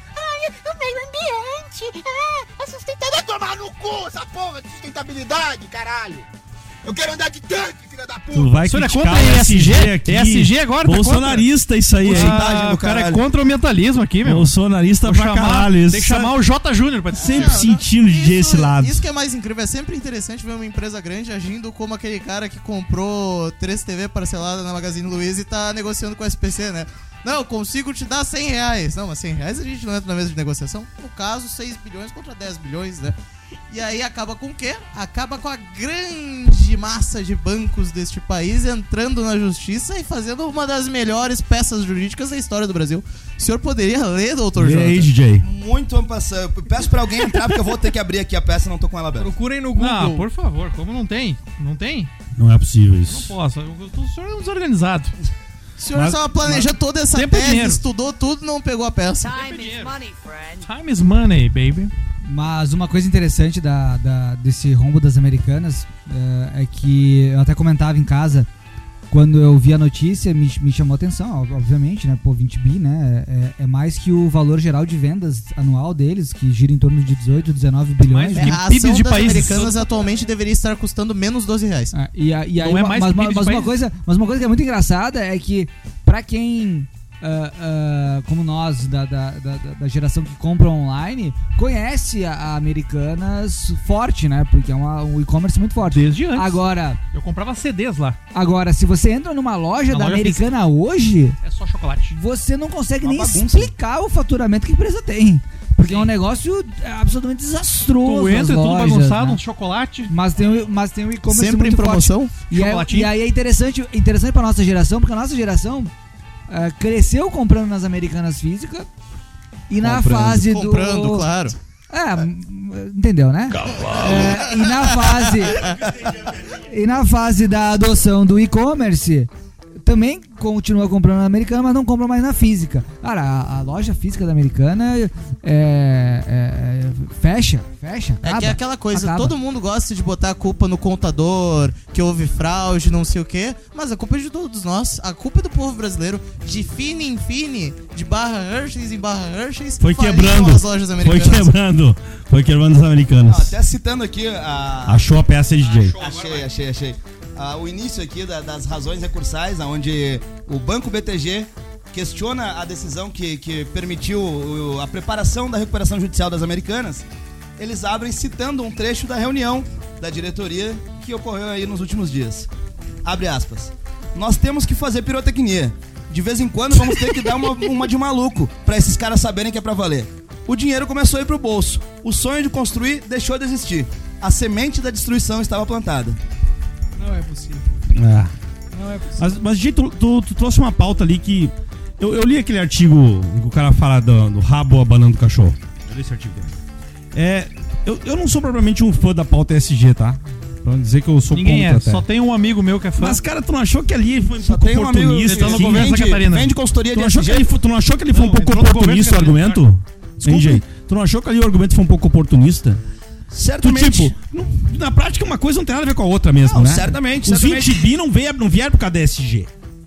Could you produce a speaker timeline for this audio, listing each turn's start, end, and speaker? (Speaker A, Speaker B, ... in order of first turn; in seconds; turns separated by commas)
Speaker A: 0.2-6.2, Speaker A: 6.9-8.4, Speaker B: 8.3-12.4, Speaker C: 8.6-11.5, Speaker D: 12.0-13.2, Speaker C: 12.0-14.5, Speaker B: 14.2-16.3, Speaker C: 15.0-17.6, Speaker B: 17.1-19.0, Speaker E: 17.2-33.2, Speaker E: 33.7-45.1, Speaker B: 44.6-45.5, Speaker D: 45.4-49.3, Speaker F: 49.2-50.3, Speaker C: 49.8-52.1, Speaker B: 52.4-53.3, Speaker C: 53.1-55.2, Speaker E: 55.8-59.4, Speaker B: 55.9-56.7, Speaker C: 57.1-57.8, Speaker A: 59.2-60.7, Speaker C: 59.3-59.9, Speaker C: 60.6-61.9, Speaker G: 62.2-68.5, Speaker G: 69.1-78.6, Speaker C: 78.0-79.9, Speaker E: 78.3-81.9, Speaker G: 81.9-97.0, Speaker C: 82.6-83.8, Speaker C: 95.9-96.6, Speaker C: 97.1-98.2, Speaker G: 98.3-101.4, Speaker C: 99.9-100.5, Speaker C: 101.4-102.2, Speaker G: 102.1-109.4, Speaker D: 103.0-103.7, Speaker C: 105.8-106.1, Speaker C: 108.0-110.1, Speaker G: 110.1-115.9, Speaker E: 111.3-112.4, Speaker C: 112.5-113.1, Speaker G: 116.5-118.9, Speaker G: 119.7-121.3, Speaker E: 119.8-121.5, Speaker G: 121.9-125.7, Speaker E: 124.1-125.8, Speaker B: 125.4-126.7, Speaker G: 126.6-129.3, Speaker G: 129.8-139.4, Speaker E: 138.2-151.5, Speaker B: 149.8-153.6, Speaker D: 153.2-155.1, Speaker B: 154.9-156.4, Speaker D: 155.7-167.1, Speaker D: 167.6-172.5, Speaker D: 173.1-186.2, Speaker F: 187.0-187.7, Speaker B: 187.9-188.3, Speaker F: 188.7-189.3, Speaker B: 189.2-196.6, Speaker B: 197.1-202.1, Speaker C: 201.3-203.2, Speaker B: 203.0-206.1, Speaker D: 204.4-207.5, Speaker C: 205.2-206.5, Speaker B: 206.9-212.8, Speaker C: 208.1-209.7, Speaker D: 210.2-210.7, Speaker D: 213.3-214.2, Speaker B: 213.6-219.5, Speaker D: 216.4-217.9